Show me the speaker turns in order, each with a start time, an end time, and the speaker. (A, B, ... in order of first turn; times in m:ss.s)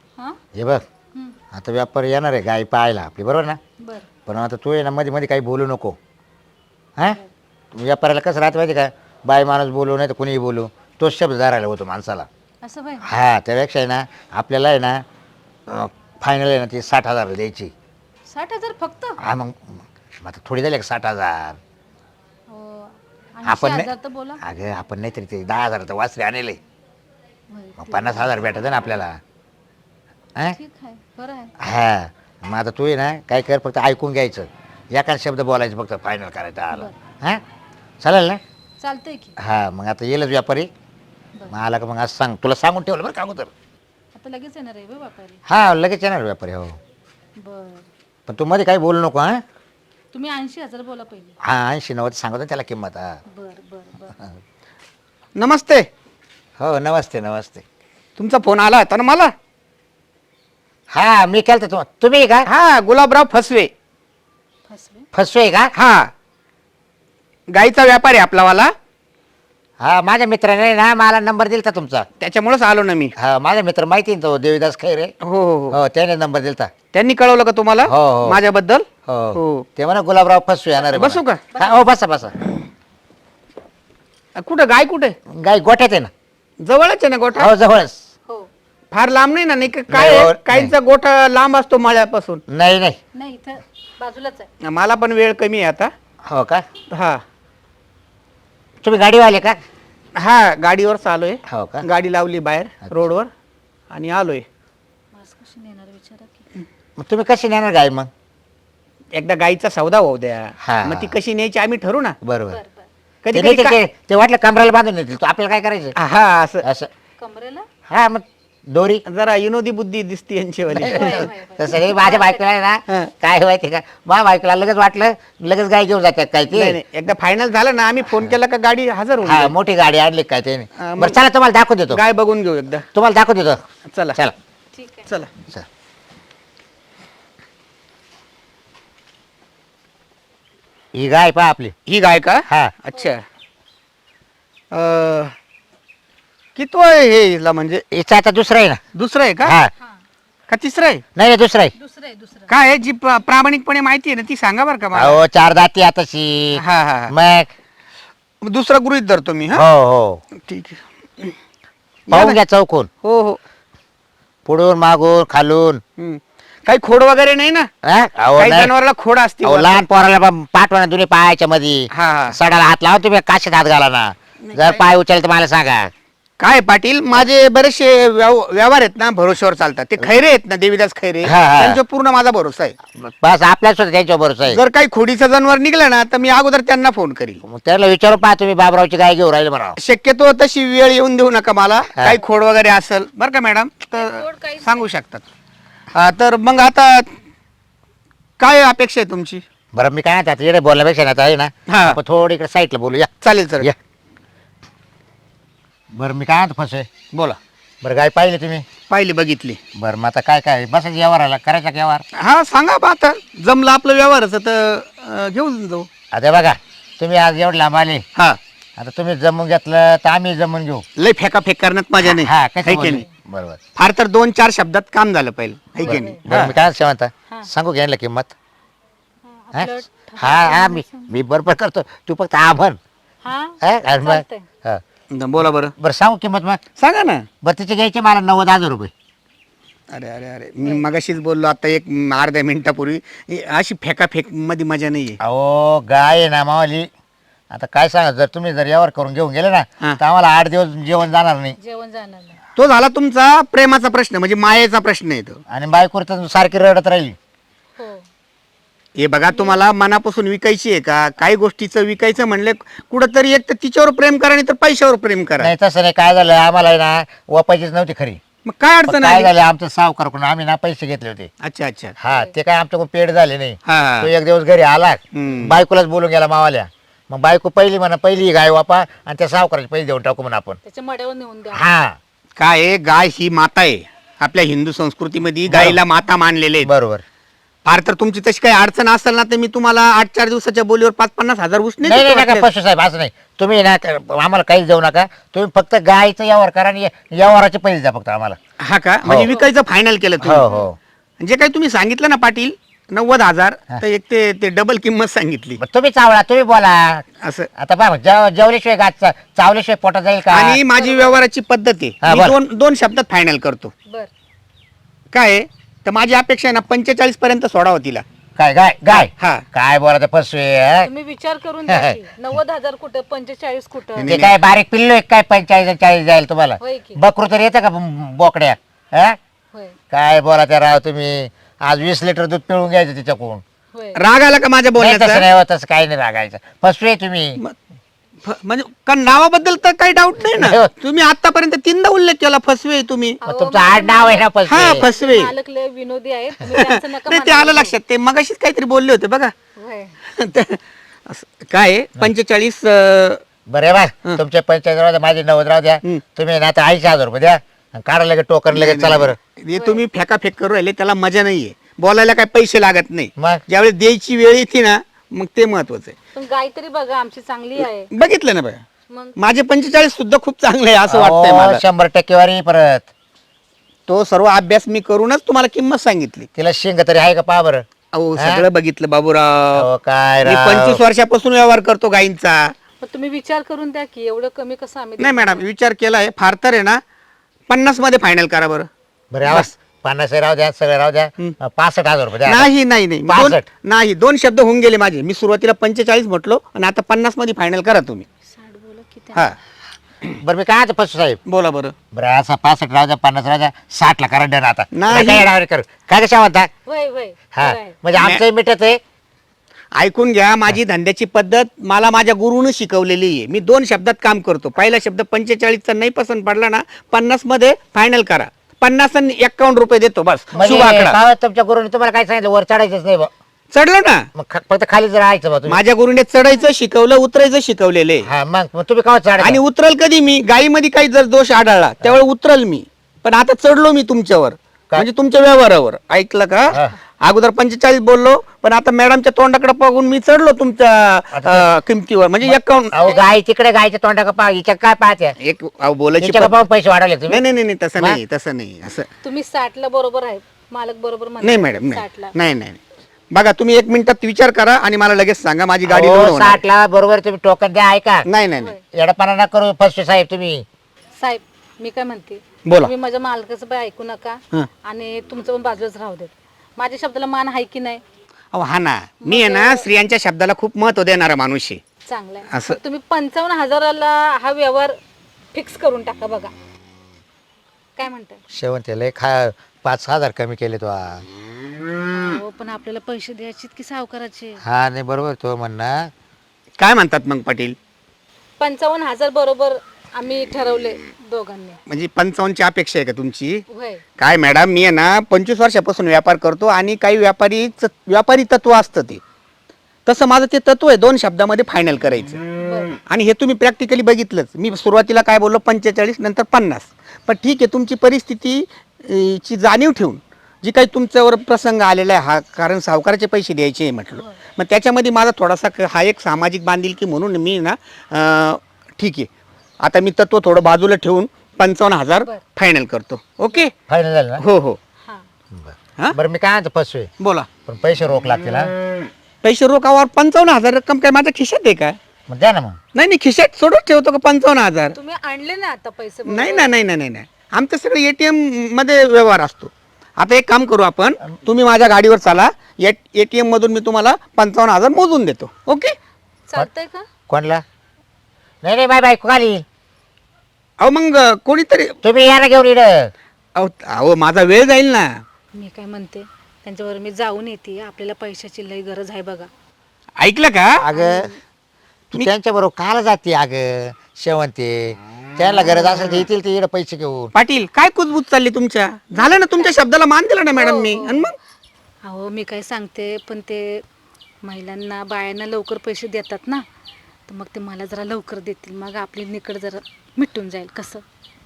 0:00.6-0:00.8 A
0:01.5-0:03.6 A
0:03.8-0:04.1 B
0:04.3-0:06.0 A
0:07.7-0:12.3 A
0:12.6-0:13.1 B
0:13.0-0:15.0 A
0:15.7-0:17.7 A
0:18.3-0:19.2 B
0:19.2-0:21.6 A
0:22.5-0:24.4 B
0:23.4-0:26.6 A
0:27.5-0:29.0 B
0:27.8-0:29.2 A
0:30.5-0:31.5 B
0:31.6-0:37.4 A
0:38.0-0:38.4 A
0:38.8-0:39.4 B
0:39.4-0:40.7 A
0:41.5-0:43.5 A
0:44.1-0:45.4 B
0:45.5-0:46.8 A
0:47.4-0:47.9 B
0:48.3-0:49.4 A
0:50.1-0:51.4 B
0:51.4-0:53.2 A
0:53.3-0:54.2 B
0:55.4-0:55.9 C
0:56.6-0:57.6 A
0:58.2-0:59.3 C
1:00.9-1:02.5 A
1:02.5-1:03.7 C
1:04.7-1:05.1 B
1:05.1-1:05.7 A
1:05.8-1:06.1 C
1:07.5-1:08.7 C
1:09.8-1:12.1 A
1:12.2-1:13.1 C
1:13.2-1:15.1 A
1:15.2-1:15.8 C
1:15.7-1:16.7 A
1:16.9-1:19.6 C
1:17.9-1:18.4 A
1:19.1-1:22.4 A
1:20.9-1:21.4 C
1:21.5-1:21.9 B
1:24.4-1:25.2 C
1:25.3-1:26.1 A
1:26.6-1:27.5 C
1:27.4-1:28.0 A
1:28.9-1:32.4 C
1:29.9-1:30.7 A
1:32.5-1:33.0 A
1:33.1-1:34.5 B
1:34.6-1:35.9 C
1:36.2-1:36.6 A
1:36.9-1:37.2 C
1:38.8-1:39.6 A
1:40.2-1:43.3 C
1:41.5-1:41.9 A
1:43.9-1:44.5 C
1:45.1-1:46.5 B
1:47.0-1:48.1 A
1:49.1-1:52.2 C
1:50.6-1:51.2 A
1:52.2-1:52.6 A
1:52.5-1:52.9 B
1:53.2-1:53.8 C
1:53.3-1:56.0 A
1:56.0-1:56.7 C
1:56.6-1:56.9 A
1:57.2-1:57.7 B
1:57.9-1:59.0 A
1:59.1-2:01.3 C
2:00.8-2:06.8 A
2:00.8-2:02.4 B
2:06.5-2:09.5 C
2:09.2-2:12.0 A
2:10.8-2:11.2 C
2:11.9-2:12.9 C
2:12.9-2:13.6 A
2:13.9-2:14.2 C
2:14.7-2:15.1 B
2:20.9-2:21.8 A
2:21.9-2:23.2 C
2:22.5-2:22.7 A
2:24.7-2:25.4 C
2:26.6-2:27.8 C
2:27.9-2:28.8 A
2:29.0-2:29.6 C
2:29.4-2:29.7 A
2:30.5-2:31.0 C
2:31.2-2:31.7 A
2:31.8-2:32.5 B
2:32.5-2:35.2 C
2:35.0-2:37.5 A
2:36.6-2:37.1 C
2:38.4-2:39.6 C
2:39.5-2:40.2 A
2:40.4-2:41.4 C
2:42.1-2:42.4 C
2:42.1-2:42.9 A
2:43.0-2:43.4 C
2:44.5-2:45.8 A
2:46.0-2:47.7 C
2:47.8-2:48.7 A
2:48.4-2:49.8 C
2:49.4-2:55.9 A
2:51.9-2:52.4 C
2:54.5-2:54.8 C
2:56.4-3:02.8 C
3:01.2-3:01.8 A
3:02.9-3:04.6 A
3:04.5-3:07.4 C
3:07.4-3:09.8 A
3:09.8-3:15.3 C
3:13.9-3:14.9 B
3:15.9-3:17.1 C
3:18.4-3:19.4 C
3:19.8-3:23.8 A
3:21.7-3:22.0 C
3:23.2-3:23.7 C
3:25.9-3:26.9 A
3:27.1-3:27.4 C
3:27.8-3:28.7 A
3:28.9-3:29.6 C
3:29.8-3:32.0 A
3:32.2-3:35.9 C
3:36.1-3:38.0 A
3:38.8-3:40.8 A
3:41.0-3:43.0 C
3:42.0-3:43.6 A
3:43.8-3:46.6 C
3:45.8-3:46.2 B
3:45.8-3:48.3 A
3:49.2-3:51.2 B
3:49.5-3:52.8 A
3:53.2-3:54.5 B
3:53.6-3:54.8 A
3:55.1-3:55.7 C
3:55.8-3:56.6 A
3:56.8-3:57.3 C
3:57.4-3:58.9 A
3:59.9-4:05.2 C
4:05.2-4:06.9 A
4:07.5-4:11.6 A
4:11.6-4:12.4 B
4:12.6-4:15.4 C
4:15.5-4:17.2 A
4:17.8-4:18.0 B
4:19.0-4:25.5 C
4:25.4-4:28.2 A
4:28.4-4:29.3 C
4:28.9-4:31.3 A
4:31.4-4:32.0 C
4:32.0-4:40.6 A
4:33.7-4:34.1 C
4:35.1-4:35.6 C
4:40.6-4:41.7 B
4:41.5-4:42.0 A
4:42.4-4:46.7 C
4:45.5-4:45.8 A
4:46.6-4:47.0 A
4:47.6-4:52.5 C
4:51.8-4:58.4 A
4:58.6-5:00.5 C
4:59.0-4:59.3 A
5:00.2-5:00.8 A
5:01.2-5:05.6 C
5:05.6-5:07.0 A
5:07.2-5:07.5 C
5:07.6-5:10.6 A
5:10.3-5:13.7 C
5:10.8-5:11.2 B
5:12.0-5:12.4 A
5:15.1-5:18.0 C
5:18.4-5:20.9 A
5:18.9-5:19.4 C
5:20.8-5:24.1 B
5:21.7-5:22.0 A
5:24.0-5:24.4 C
5:24.0-5:29.2 A
5:26.6-5:27.0 B
5:29.9-5:33.4 A
5:33.7-5:34.0 B
5:34.0-5:35.3 C
5:34.8-5:37.4 A
5:38.2-5:43.2 C
5:40.4-5:40.7 A
5:43.2-5:47.8 B
5:43.2-5:44.9 A
5:44.5-5:45.3 C
5:46.5-5:49.3 C
5:49.6-5:50.0 B
5:50.1-5:53.2 C
5:53.5-5:59.2 A
5:58.5-6:06.0 C
5:59.5-5:59.8 B
6:03.2-6:03.4 A
6:06.2-6:07.9 B
6:07.9-6:08.6 C
6:08.9-6:09.2 B
6:09.2-6:11.6 C
6:10.9-6:12.9 A
6:13.9-6:16.3 C
6:16.4-6:17.6 A
6:17.9-6:19.7 C
6:18.2-6:18.4 A
6:19.6-6:20.8 A
6:20.2-6:22.5 C
6:22.8-6:25.4 B
6:25.0-6:26.8 C
6:27.5-6:28.7 C
6:29.1-6:32.5 A
6:29.2-6:29.5 C
6:32.2-6:38.1 C
6:33.1-6:33.4 A
6:38.2-6:39.3 B
6:40.2-6:41.2 A
6:41.3-6:41.8 C
6:41.9-6:46.5 A
6:44.7-6:45.3 C
6:46.7-6:47.8 B
6:47.4-6:48.8 A
6:48.0-6:48.2 C
6:49.8-7:01.0 C
7:00.3-7:03.1 A
7:03.5-7:04.1 C
7:04.2-7:05.6 A
7:05.5-7:08.1 C
7:08.1-7:09.4 A
7:09.2-7:22.9 C
7:21.1-7:21.5 A
7:22.3-7:25.2 A
7:22.8-7:23.1 B
7:25.2-7:26.3 C
7:26.0-7:27.2 A
7:27.1-7:28.9 C
7:29.0-7:32.2 B
7:31.2-7:32.6 C
7:33.1-7:36.4 C
7:35.7-7:38.1 A
7:38.1-7:38.6 C
7:38.7-7:40.4 A
7:41.0-7:47.8 B
7:42.4-7:42.7 C
7:48.3-7:51.6 C
7:49.0-7:49.7 B
7:51.9-7:54.8 B
7:52.3-7:52.6 C
7:55.3-7:56.3 B
7:57.8-7:58.2 B
7:58.3-8:01.0 A
8:01.9-8:04.4 B
8:04.4-8:05.9 A
8:06.6-8:07.6 C
8:08.4-8:11.6 B
8:11.7-8:13.4 C
8:13.5-8:13.8 B
8:14.0-8:19.0 C
8:19.9-8:22.2 C
8:22.4-8:22.7 B
8:22.9-8:39.1 C
8:39.6-8:43.5 C
8:43.7-8:44.2 A
8:44.2-8:44.6 C
8:45.3-8:46.9 A
8:47.0-8:47.3 C
8:47.5-8:48.5 A
8:49.2-8:51.8 C
8:52.1-8:52.6 A
8:52.7-8:54.8 C
8:54.8-8:56.5 B
8:56.1-9:05.8 C
9:06.3-9:06.9 B
9:07.1-9:07.4 A
9:08.4-9:09.4 A
9:10.6-9:11.8 C
9:11.8-9:12.9 A
9:13.4-9:15.0 C
9:15.4-9:19.3 B
9:20.0-9:20.6 C
9:20.6-9:21.1 A
9:20.7-9:21.2 B
9:21.9-9:27.1 A
9:27.1-9:31.2 C
9:29.0-9:29.6 B
9:30.4-9:31.0 B
9:31.8-9:33.6 B
9:34.2-9:36.4 B
9:37.1-9:40.8 B